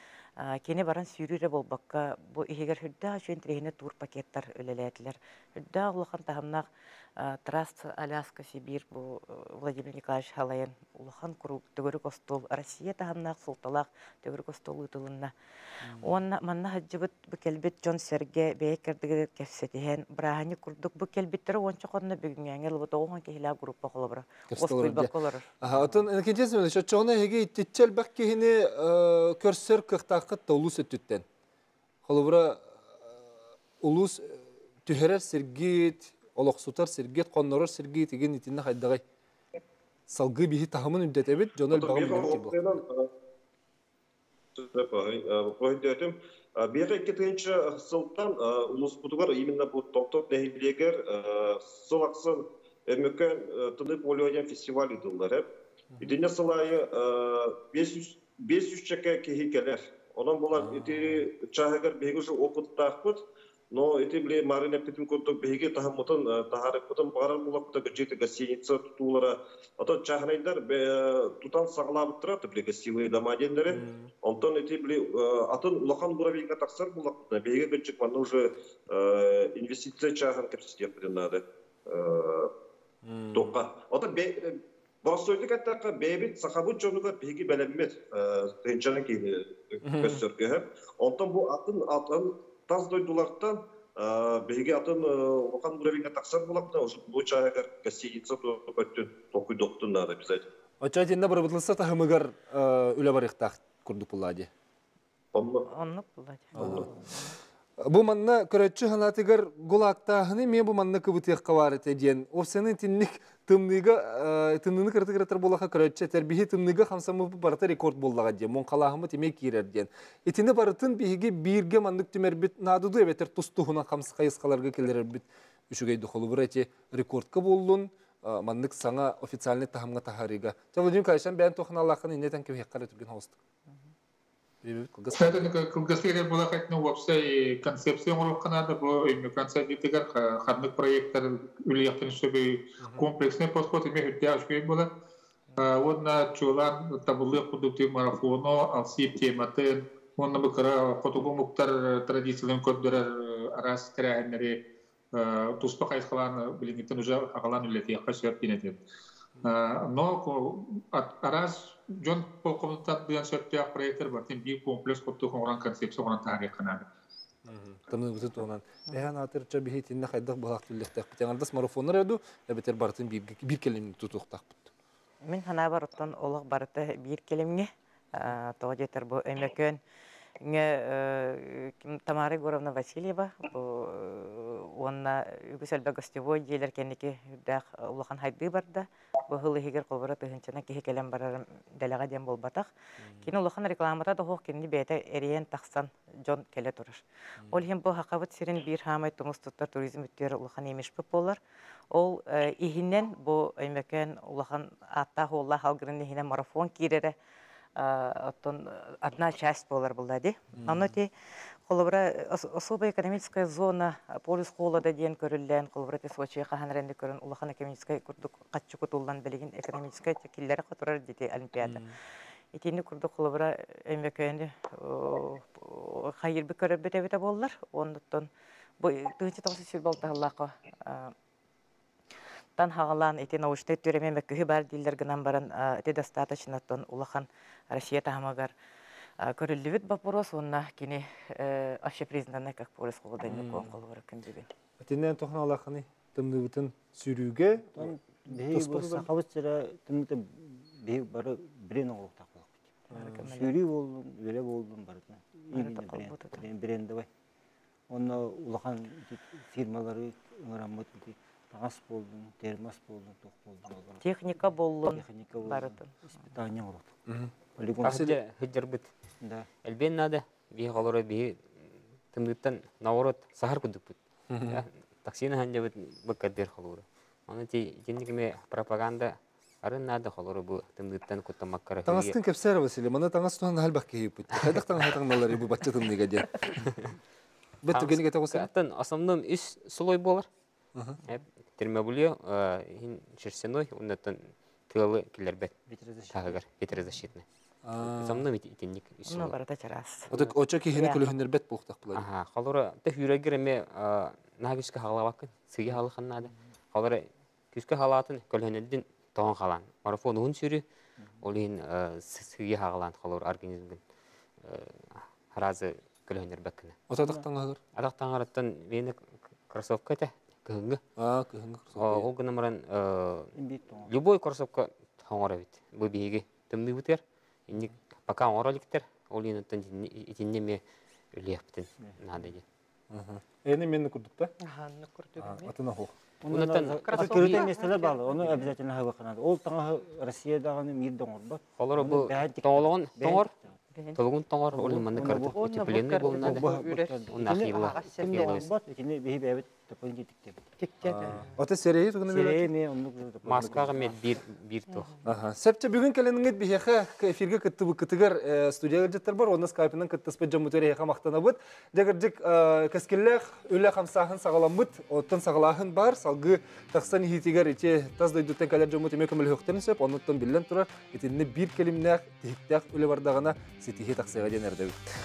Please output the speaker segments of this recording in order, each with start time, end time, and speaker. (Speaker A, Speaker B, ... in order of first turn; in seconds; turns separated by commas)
Speaker A: 0.4-6.7, Speaker A: 7.2-15.3, Speaker B: 15.8-16.1, Speaker A: 16.0-25.5, Speaker B: 24.5-31.2, Speaker B: 32.0-33.2, Speaker B: 33.8-39.0, Speaker B: 40.1-42.7, Speaker C: 41.7-43.1, Speaker C: 44.5-55.5, Speaker C: 56.0-82.5, Speaker B: 60.5-61.2, Speaker B: 73.7-74.1, Speaker B: 83.0-83.5, Speaker C: 83.3-100.5, Speaker B: 89.8-90.2, Speaker B: 100.8-104.5, Speaker C: 105.3-105.7, Speaker A: 105.7-107.3, Speaker B: 106.5-107.0, Speaker C: 106.5-106.9, Speaker B: 107.8-133.4, Speaker B: 134.6-135.5, Speaker D: 135.2-144.9, Speaker B: 142.8-143.1, Speaker D: 145.6-158.8, Speaker D: 159.4-166.9, Speaker B: 167.4-174.7, Speaker A: 175.2-179.8, Speaker A: 180.4-192.7, Speaker A: 193.2-201.4, Speaker A: 201.9-207.1, Speaker A: 207.8-211.1, Speaker B: 210.5-210.9, Speaker A: 211.7-221.8, Speaker B: 221.6-221.9, Speaker A: 222.5-228.3, Speaker A: 228.8-231.1, Speaker A: 232.6-238.5, Speaker A: 239.2-244.5, Speaker B: 243.2-243.7, Speaker B: 244.8-247.9, Speaker E: 247.7-257.1, Speaker B: 248.4-249.1, Speaker B: 252.9-253.3, Speaker A: 252.9-253.5, Speaker A: 255.5-256.4, Speaker E: 257.9-264.0, Speaker A: 264.0-265.9, Speaker E: 264.9-267.0, Speaker B: 267.1-267.3, Speaker E: 267.5-268.1, Speaker F: 267.8-268.9, Speaker E: 269.2-269.5, Speaker F: 269.6-271.5, Speaker F: 272.1-282.1, Speaker B: 274.3-274.6, Speaker B: 281.8-286.6, Speaker F: 286.6-286.9, Speaker B: 287.6-288.5, Speaker F: 287.7-290.3, Speaker B: 290.7-291.0, Speaker F: 291.1-295.5, Speaker E: 295.7-296.4, Speaker F: 296.1-297.2, Speaker B: 297.6-298.2, Speaker F: 297.8-299.4, Speaker A: 299.1-300.1, Speaker B: 300.1-302.0, Speaker A: 300.7-301.1, Speaker F: 301.9-310.6, Speaker F: 311.2-313.8, Speaker F: 314.4-316.8, Speaker B: 316.9-317.6, Speaker E: 317.0-317.3, Speaker F: 317.7-319.0, Speaker F: 319.5-320.8, Speaker B: 321.0-322.1, Speaker F: 321.7-323.3, Speaker E: 323.3-323.9, Speaker F: 323.9-330.6, Speaker F: 331.1-332.4, Speaker B: 332.9-334.3, Speaker G: 334.4-335.5, Speaker B: 335.2-335.9, Speaker E: 336.2-343.5, Speaker F: 336.3-337.5, Speaker G: 336.6-338.5, Speaker F: 341.6-343.3, Speaker F: 343.9-348.5, Speaker E: 344.5-350.4, Speaker G: 345.0-348.5, Speaker G: 350.6-351.4, Speaker B: 350.8-352.5, Speaker E: 352.1-354.1, Speaker F: 353.2-354.9, Speaker G: 354.7-355.0, Speaker B: 355.0-374.8